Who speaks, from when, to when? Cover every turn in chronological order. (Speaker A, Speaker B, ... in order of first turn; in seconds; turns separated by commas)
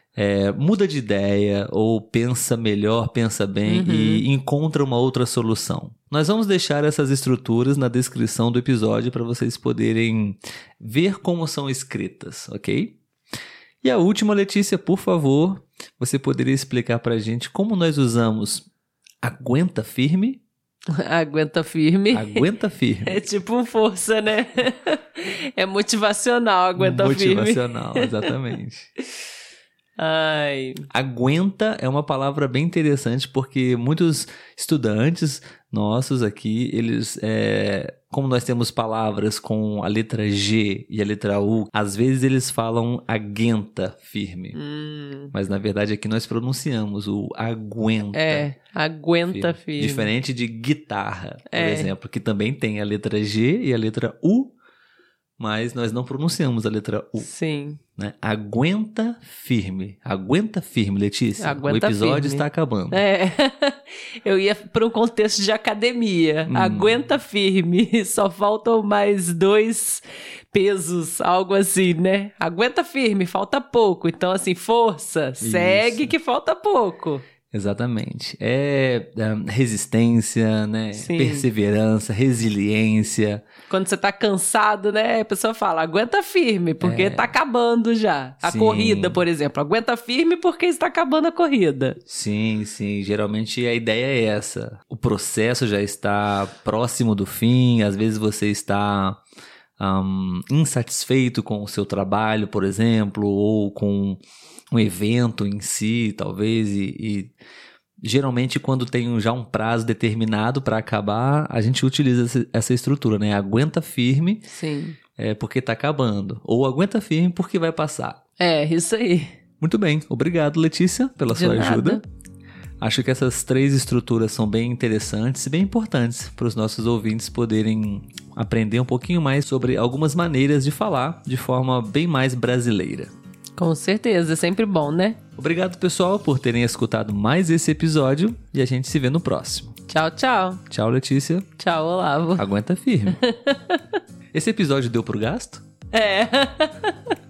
Speaker A: 0.2-13.0, Speaker B: 3.7-4.2, Speaker A: 13.8-18.7, Speaker A: 19.2-20.4, Speaker B: 20.9-22.4, Speaker A: 22.1-23.2, Speaker B: 23.1-28.4, Speaker A: 26.8-28.9, Speaker B: 30.0-30.9, Speaker A: 30.9-44.6, Speaker B: 44.5-45.3, Speaker A: 45.3-48.5, Speaker B: 48.1-50.1, Speaker A: 49.3-54.5, Speaker B: 51.5-51.9, Speaker A: 55.4-57.3, Speaker B: 57.2-57.8, Speaker A: 58.0-63.0, Speaker B: 61.4-77.3, Speaker A: 66.5-67.0, Speaker A: 75.4-76.1, Speaker A: 77.5-83.4, Speaker B: 81.0-81.5, Speaker B: 83.7-92.0, Speaker A: 86.8-87.3, Speaker A: 88.4-89.2, Speaker A: 92.1-99.2, Speaker A: 99.8-104.2, Speaker A: 104.7-107.3, Speaker A: 108.0-114.4, Speaker B: 114.5-115.0, Speaker A: 115.2-118.2, Speaker B: 118.4-119.3, Speaker A: 119.6-122.0, Speaker B: 121.3-122.0, Speaker A: 122.8-133.1, Speaker B: 133.6-135.2, Speaker A: 135.4-139.8, Speaker B: 139.9-140.6, Speaker A: 140.7-141.5, Speaker B: 141.6-142.4, Speaker A: 142.4-143.2, Speaker B: 143.1-143.8, Speaker A: 144.3-145.6, Speaker B: 145.9-147.1